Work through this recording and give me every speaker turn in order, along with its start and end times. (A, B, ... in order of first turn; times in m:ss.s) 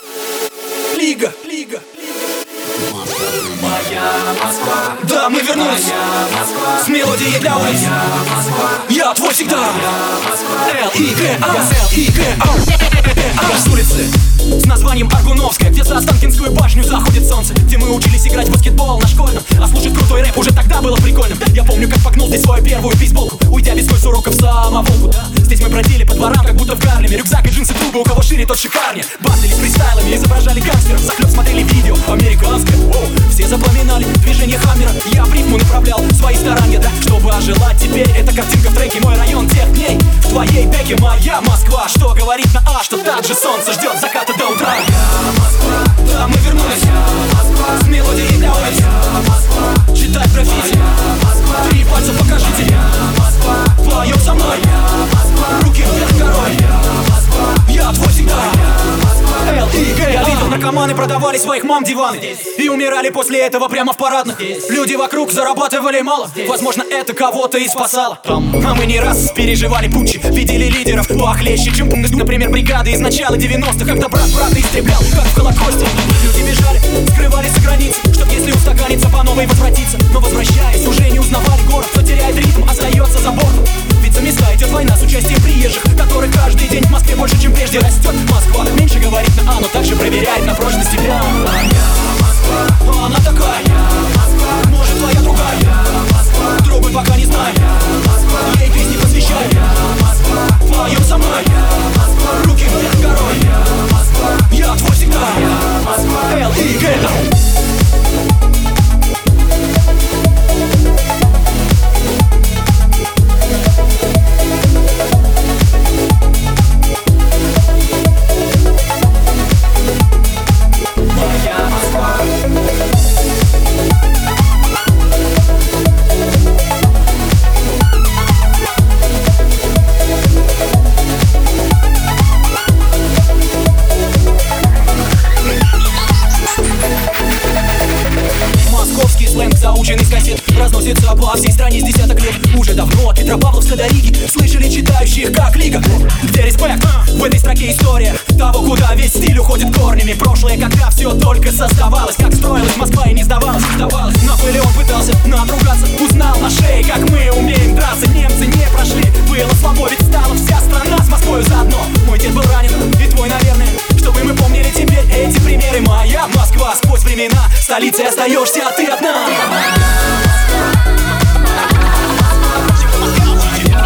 0:00.9-0:02.2 A
0:03.5-1:31.8 A
1:32.6-1:47.3 A
2:18.6-2:49.6 A